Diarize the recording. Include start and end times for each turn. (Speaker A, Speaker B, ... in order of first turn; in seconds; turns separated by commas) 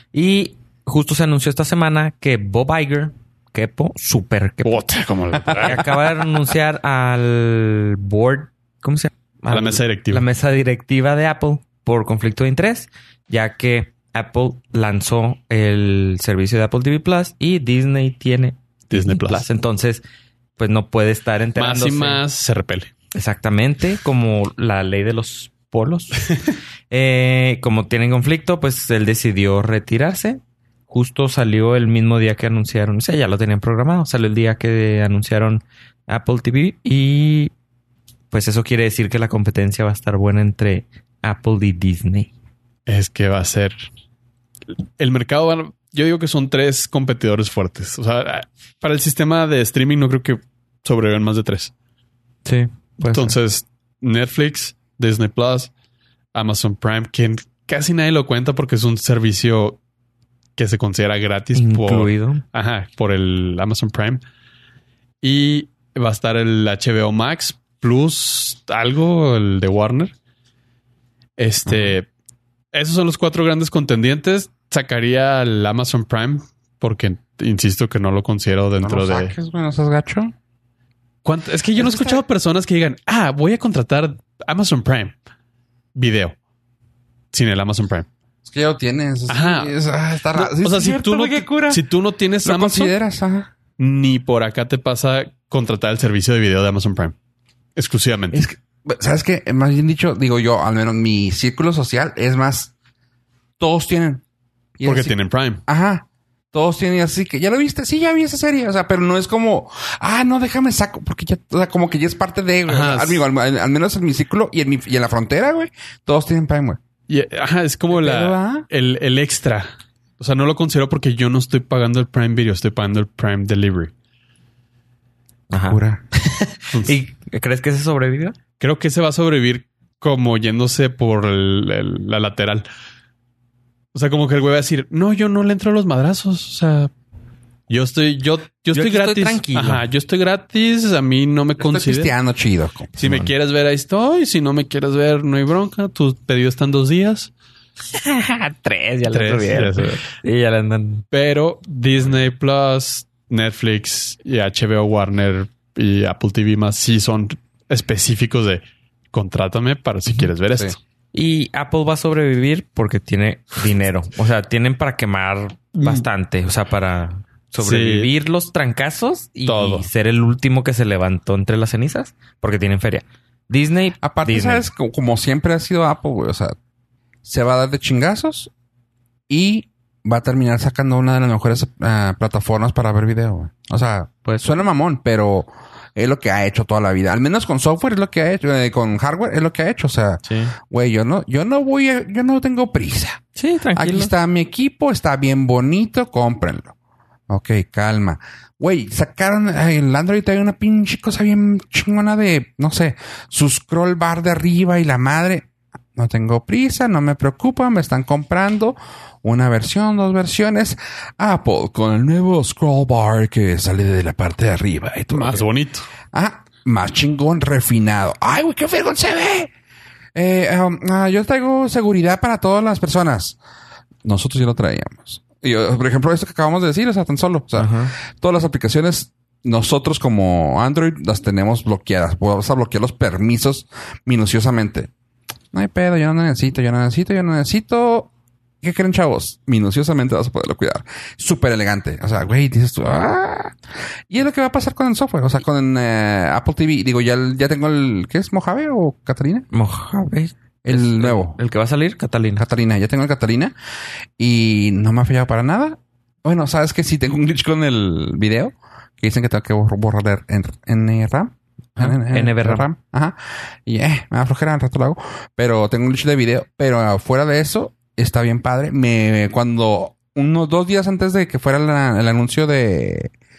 Speaker A: 0.1-5.0, Speaker B: 4.6-6.1, Speaker A: 5.6-20.0, Speaker B: 9.5-10.2, Speaker B: 18.9-19.4, Speaker A: 20.6-22.2, Speaker B: 21.6-22.9, Speaker A: 23.1-26.3, Speaker A: 26.9-37.5, Speaker A: 38.3-42.3, Speaker B: 42.9-43.9, Speaker B: 45.0-51.7, Speaker A: 52.4-53.4, Speaker B: 53.1-55.7, Speaker B: 56.3-59.8, Speaker B: 60.6-64.2, Speaker A: 61.5-62.4, Speaker B: 65.2-70.1, Speaker B: 71.4-72.0, Speaker C: 71.7-71.9, Speaker B: 72.7-79.3, Speaker C: 78.8-80.3, Speaker B: 81.2-85.1, Speaker C: 81.8-82.2, Speaker B: 85.9-86.3, Speaker B: 87.3-88.1, Speaker C: 88.5-91.8, Speaker B: 89.3-89.7, Speaker B: 90.3-92.9, Speaker C: 92.4-93.5, Speaker B: 93.8-97.1, Speaker B: 97.8-98.4, Speaker C: 98.3-102.7, Speaker C: 103.6-104.2, Speaker C: 104.8-105.1, Speaker B: 104.8-105.6, Speaker C: 105.7-116.8, Speaker B: 112.7-113.2, Speaker B: 117.1-119.7, Speaker C: 117.9-118.7, Speaker B: 120.2-123.9, Speaker A: 125.5-128.3, Speaker C: 125.6-126.0, Speaker B: 128.6-132.6, Speaker B: 133.9-136.9, Speaker B: 137.7-142.1, Speaker A: 138.7-139.8, Speaker C: 141.6-143.3, Speaker B: 143.0-147.3, Speaker A: 147.9-151.0, Speaker B: 149.1-150.0, Speaker B: 151.1-158.6, Speaker B: 159.1-160.8, Speaker A: 161.1-174.7, Speaker B: 165.8-166.1, Speaker B: 167.6-168.1, Speaker B: 169.4-169.9, Speaker C: 174.0-176.5, Speaker C: 177.2-178.5, Speaker C: 179.3-193.2, Speaker A: 184.2-184.6, Speaker A: 190.2-190.5, Speaker A: 193.3-194.1, Speaker C: 193.8-196.7, Speaker C: 197.3-215.4, Speaker B: 215.1-215.9, Speaker C: 216.1-219.5, Speaker C: 220.1-223.4, Speaker C: 224.0-234.9, Speaker A: 227.6-227.9, Speaker C: 235.5-238.1, Speaker C: 238.6-243.6, Speaker C: 244.1-249.4, Speaker A: 249.5-252.4, Speaker C: 250.6-251.4, Speaker C: 252.3-253.5, Speaker C: 254.2-273.1, Speaker A: 261.8-262.7